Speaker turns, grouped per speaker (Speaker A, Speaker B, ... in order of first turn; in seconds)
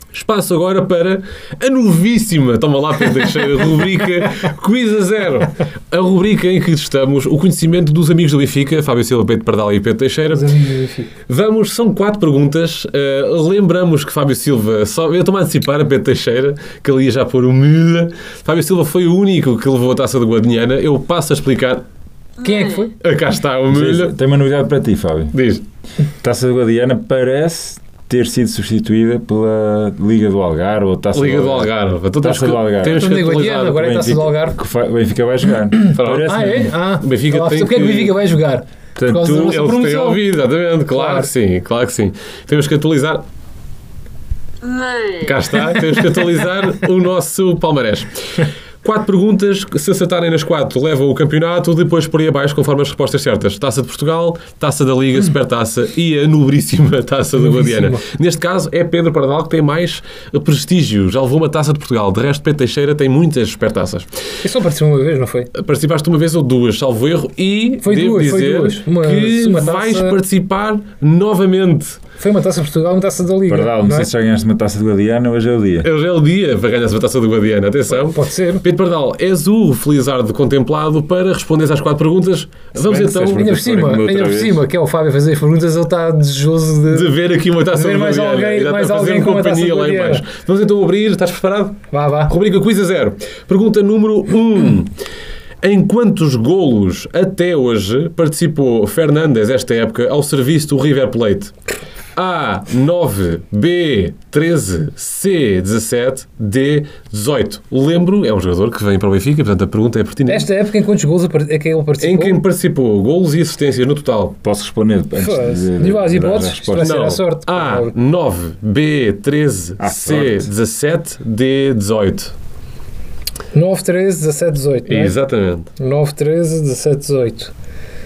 Speaker A: 0.1-10.5, 11.3-21.8, 23.0-24.1, 25.3-25.6, 31.1-33.9, 35.9-38.1, 39.4-43.2, 45.2-64.1, 65.5-72.0, 75.8-83.4, 86.9-94.9, 95.6-101.5, 102.1-110.5, 112.0-114.3, 116.8-122.3, 124.8-125.7
Speaker B: 10.3-11.1, 22.4-22.9, 32.8-34.6, 35.8-40.2, 40.9-41.3, 57.4-58.0, 64.4-65.5, 67.8-70.2, 72.2-74.1, 77.9-78.6, 82.8-90.2, 91.9-92.3, 110.3-112.4, 115.2-117.9, 123.5-125.2, 125.8-127.5
Speaker C: 23.7-25.4, 26.2-36.7, 39.0-39.6, 73.5-75.9, 82.8-84.6, 114.4-117.0, 119.8-120.5